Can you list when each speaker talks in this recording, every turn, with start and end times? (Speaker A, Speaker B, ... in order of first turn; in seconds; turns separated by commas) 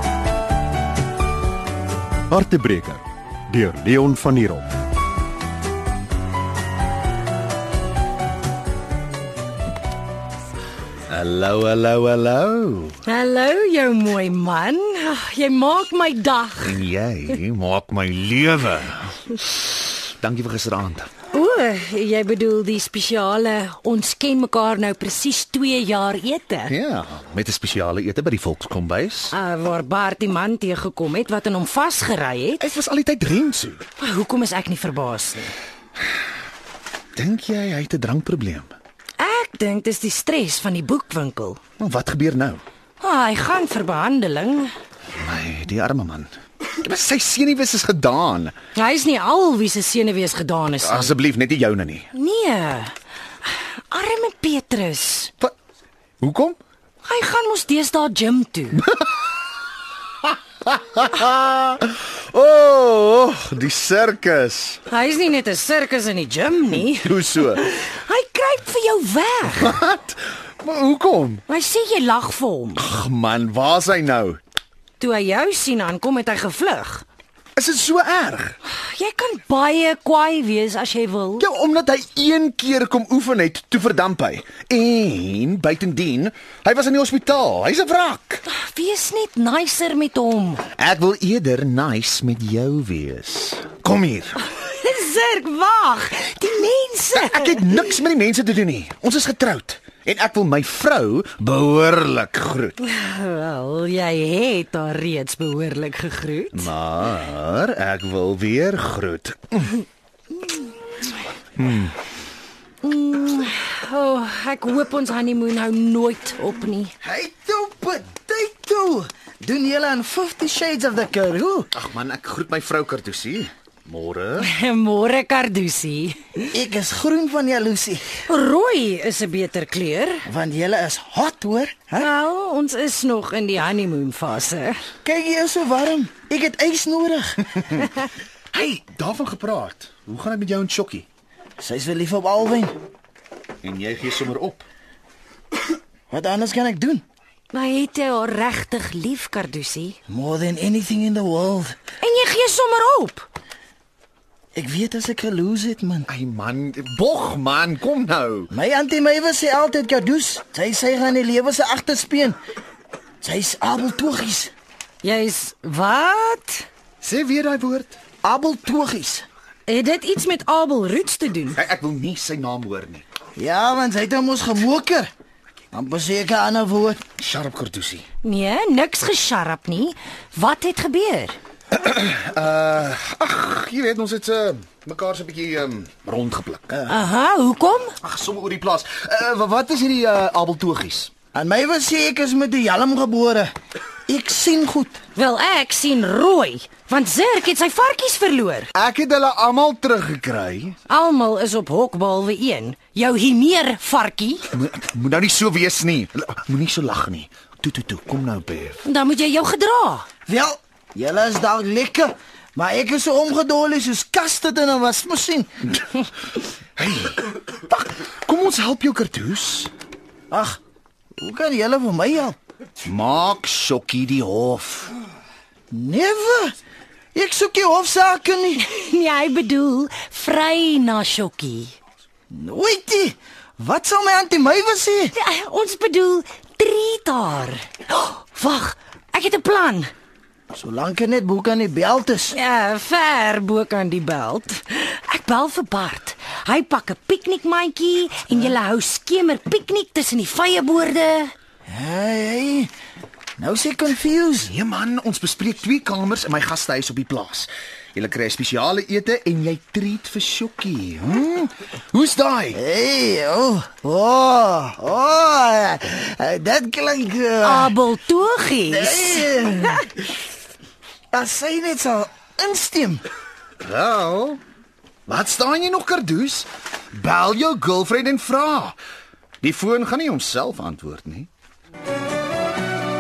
Speaker A: 2.3-4.7, Speaker B: 11.1-13.0, Speaker C: 13.1-16.8, Speaker B: 16.6-19.1, Speaker B: 20.2-21.1, Speaker C: 21.3-26.7, Speaker B: 26.7-29.4, Speaker C: 29.3-32.6, Speaker B: 32.6-33.9, Speaker C: 34.0-35.5, Speaker B: 37.2-38.7, Speaker C: 39.2-41.6, Speaker B: 41.8-42.6, Speaker C: 43.0-44.7, Speaker B: 45.2-46.3, Speaker B: 46.8-48.5, Speaker C: 48.8-51.1, Speaker B: 50.8-52.1, Speaker C: 52.1-55.3, Speaker B: 56.2-56.6, Speaker C: 57.0-58.8, Speaker B: 60.6-64.8, Speaker C: 64.9-69.7, Speaker B: 66.7-67.7, Speaker B: 69.6-71.4, Speaker C: 71.5-72.8, Speaker B: 72.8-74.4, Speaker C: 75.0-77.0, Speaker B: 77.6-78.6, Speaker C: 78.7-81.5, Speaker B: 81.4-88.4, Speaker C: 88.5-90.6, Speaker B: 90.8-94.5, Speaker C: 94.5-97.6, Speaker B: 97.1-102.8, Speaker C: 102.8-106.7, Speaker B: 106.5-109.8, Speaker B: 111.6-112.0, Speaker C: 112.8-116.9, Speaker D: 117.0-121.7, Speaker B: 121.7-124.5, Speaker C: 124.4-126.5, Speaker D: 126.5-128.2, Speaker C: 128.3-130.2, Speaker D: 130.2-132.1, Speaker C: 132.0-134.8, Speaker D: 135.0-137.9, Speaker B: 138.5-141.1, Speaker D: 141.6-142.7, Speaker B: 143.6-144.7, Speaker D: 146.1-147.0, Speaker C: 147.5-150.0, Speaker D: 150.1-151.8, Speaker C: 152.0-153.3, Speaker D: 154.5-156.1, Speaker B: 156.1-158.5, Speaker D: 158.5-162.4, Speaker D: 163.2-164.5, Speaker C: 165.0-166.7, Speaker B: 167.0-168.2, Speaker D: 168.2-169.2, Speaker C: 169.7-171.6, Speaker B: 171.5-173.1, Speaker D: 173.3-175.1, Speaker D: 175.7-177.0, Speaker B: 177.2-178.1, Speaker C: 178.2-181.4, Speaker B: 181.7-186.8, Speaker D: 186.7-187.0, Speaker C: 186.9-188.0, Speaker B: 188.0-191.1, Speaker D: 191.3-193.5, Speaker D: 194.1-195.0, Speaker C: 195.2-198.7, Speaker B: 198.8-200.8, Speaker C: 200.9-204.5, Speaker B: 204.5-208.8, Speaker C: 208.8-210.1, Speaker D: 210.3-215.5, Speaker B: 216.8-219.7, Speaker D: 220.3-220.6, Speaker D: 221.2-222.3, Speaker B: 222.8-224.9, Speaker D: 225.7-226.6, Speaker D: 227.1-228.6, Speaker C: 228.6-231.7, Speaker D: 232.3-235.2, Speaker C: 235.1-239.9, Speaker D: 240.5-242.4, Speaker C: 242.3-251.3, Speaker D: 251.7-252.7, Speaker D: 253.4-254.5, Speaker B: 254.5-262.6, Speaker D: 262.5-267.8, Speaker C: 267.4-269.3, Speaker D: 268.7-269.9, Speaker D: 271.1-273.0, Speaker B: 273.6-274.4, Speaker B: 275.1-278.8, Speaker B: 279.4-281.3